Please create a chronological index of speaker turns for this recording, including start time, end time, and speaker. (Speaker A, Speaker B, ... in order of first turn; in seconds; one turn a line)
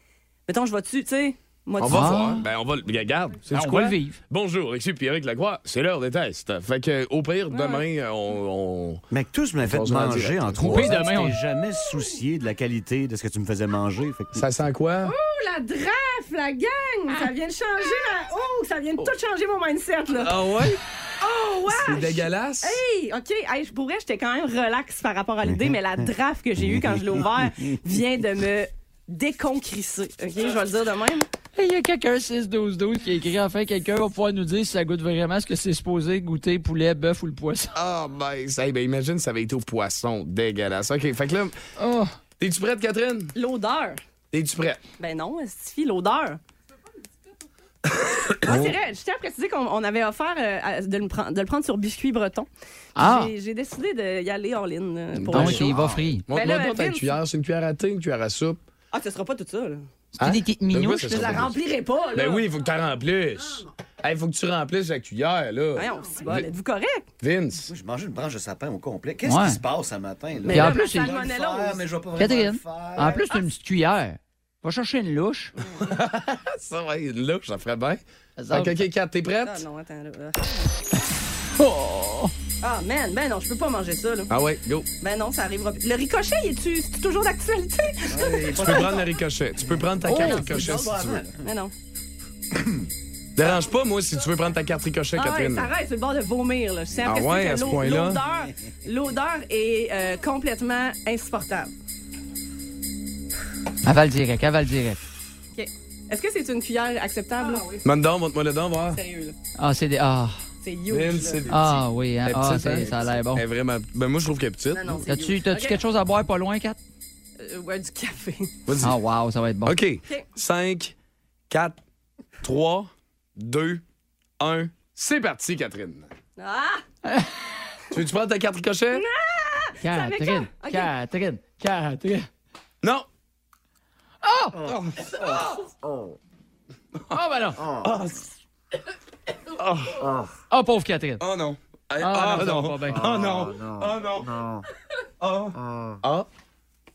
Speaker A: 0.5-2.2
Speaker B: 1.8-9.0
Speaker C: 1.8-2.5
Speaker C: 3.5-4.2
Speaker A: 7.5-7.8
Speaker D: 9.1-14.4
Speaker B: 9.6-10.9
Speaker C: 10.6-11.4
Speaker B: 14.4-15.1
Speaker A: 15.0-31.3
Speaker B: 20.1-20.8
Speaker B: 21.7-22.8
Speaker D: 25.5-25.8
Speaker D: 26.8-27.1
Speaker C: 31.6-37.8
Speaker B: 37.8-41.5
Speaker C: 41.8-42.1
Speaker B: 42.4-43.4
Speaker A: 43.4-44.0
Speaker B: 44.3-44.8
Speaker A: 45.0-46.4
Speaker B: 47.9-48.8
Speaker A: 48.4-55.8
Speaker C: 53.0-53.3
Speaker B: 55.1-58.6
Speaker C: 55.3-56.3
Speaker A: 56.3-57.2
Speaker A: 58.9-59.9
Speaker C: 60.1-61.4
Speaker B: 60.2-61.6
Speaker A: 61.1-62.5
Speaker B: 62.1-66.5
Speaker A: 65.8-67.0
Speaker B: 67.2-67.7
Speaker D: 67.7-73.3
Speaker C: 69.2-69.6
Speaker A: 70.5-71.9
Speaker C: 70.5-71.2
Speaker C: 72.2-75.5
Speaker B: 75.8-79.6
Speaker C: 78.4-78.8
Speaker A: 79.4-80.6
Speaker C: 81.6-82.3
Speaker A: 82.6-84.3
Speaker B: 84.3-84.9
Speaker A: 85.0-88.9
Speaker D: 88.1-89.0
Speaker B: 88.5-91.2
Speaker D: 90.0-91.4
Speaker A: 90.1-91.7
Speaker B: 93.4-95.7
Speaker A: 95.2-101.7
Speaker B: 97.1-98.2
Speaker C: 103.8-105.0
Speaker A: 105.5-107.7
Speaker B: 107.8-109.0
Speaker A: 108.9-109.4
Speaker C: 109.6-110.4
Speaker A: 110.6-111.5
Speaker B: 110.9-115.0
Speaker C: 111.5-113.4
Speaker A: 114.7-115.8
Speaker C: 115.1-116.8
Speaker A: 117.4-118.6
Speaker B: 118.7-119.0
Speaker C: 118.8-119.8
Speaker B: 119.7-120.9
Speaker B: 121.5-121.8
Speaker B: 122.4-123.8
Speaker B: 124.4-126.1
Speaker A: 126.4-126.8
Speaker C: 127.0-127.3
Speaker B: 127.9-129.1
Speaker A: 128.9-130.9
Speaker C: 129.8-132.3
Speaker C: 134.2-134.6
Speaker D: 134.6-136.2
Speaker B: 134.6-135.7
Speaker C: 137.1-137.6
Speaker D: 137.6-137.9
Speaker B: 137.8-138.3
Speaker B: 139.6-140.1
Speaker D: 140.0-140.3
Speaker C: 140.5-141.2
Speaker B: 141.2-144.4
Speaker C: 142.0-143.1
Speaker D: 142.9-144.7
Speaker B: 145.2-146.3
Speaker D: 145.5-146.0